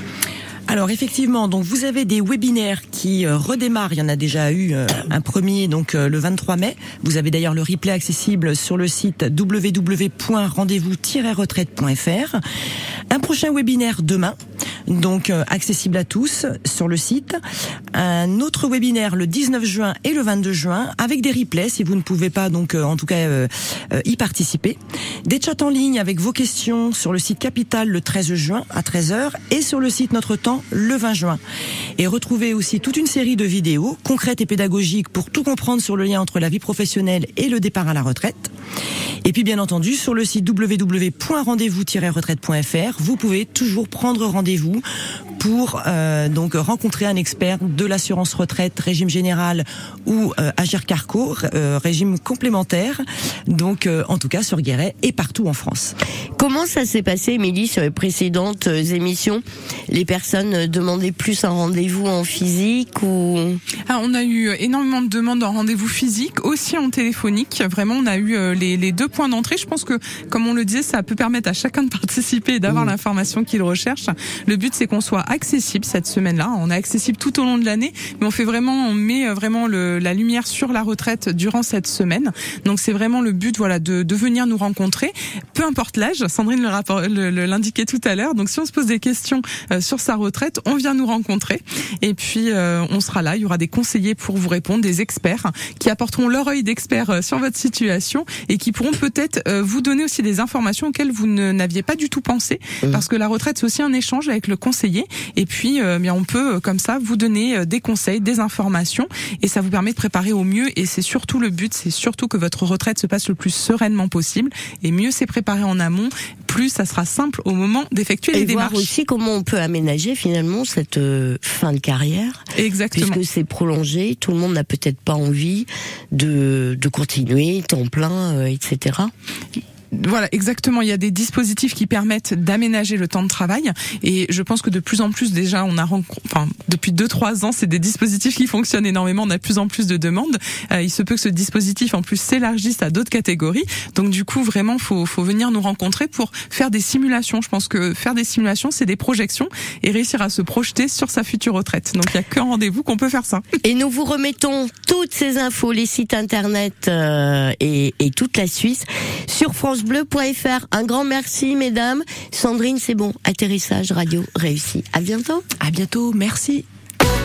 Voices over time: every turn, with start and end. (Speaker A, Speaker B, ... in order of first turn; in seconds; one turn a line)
Speaker A: 0.7-12.4
Speaker A: 13.1-14.3
Speaker A: 14.9-17.4
Speaker A: 17.9-31.4
Speaker A: 32.0-38.5
Speaker A: 39.2-44.8
Speaker A: 45.4-56.0
Speaker B: 56.4-63.6
Speaker C: 63.9-118.9
Speaker B: 118.3-122.4
Speaker C: 122.5-123.2
Speaker B: 122.9-129.1
Speaker C: 129.9-153.4
Speaker B: 153.6-165.4
Speaker A: 165.6-166.7